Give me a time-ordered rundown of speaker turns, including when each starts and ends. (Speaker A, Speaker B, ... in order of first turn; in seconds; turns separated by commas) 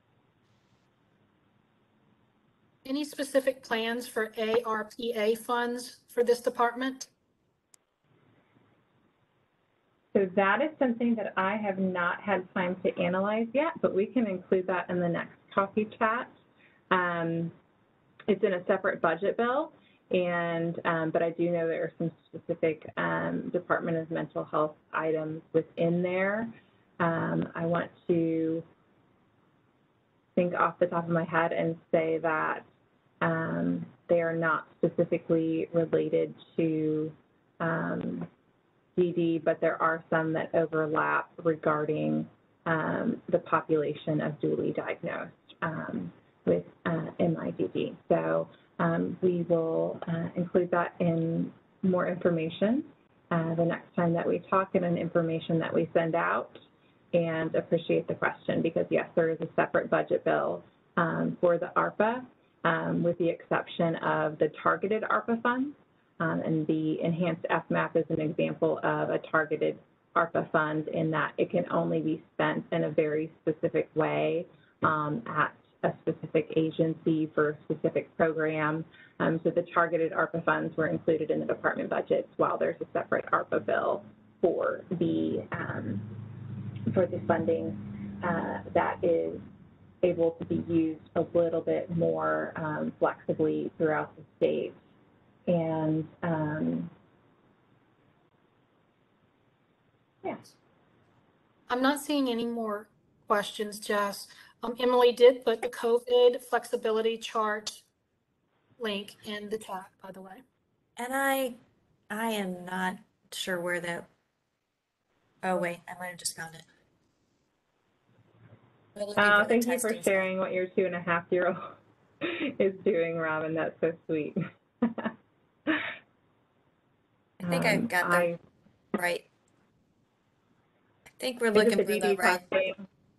Speaker A: 2.9-7.1, Speaker B: 10.1-16.3, Speaker B: 16.9-17.5, Speaker B: 18.3-28.6, Speaker B: 30.4-32.7, Speaker B: 33.2-38.3, Speaker B: 39.0-56.6, Speaker B: 57.1-89.5, Speaker B: 90.0-94.8, Speaker B: 95.5-96.9, Speaker A: 101.7-107.8, Speaker A: 108.8-110.4, Speaker C: 111.0-111.6, Speaker C: 112.1-114.1, Speaker C: 115.4-116.7, Speaker C: 119.0-120.3, Speaker B: 119.2-125.1, Speaker B: 127.4-128.4, Speaker C: 127.4-128.3, Speaker C: 128.9-129.3, Speaker C: 131.2-132.5, Speaker B: 131.5-132.8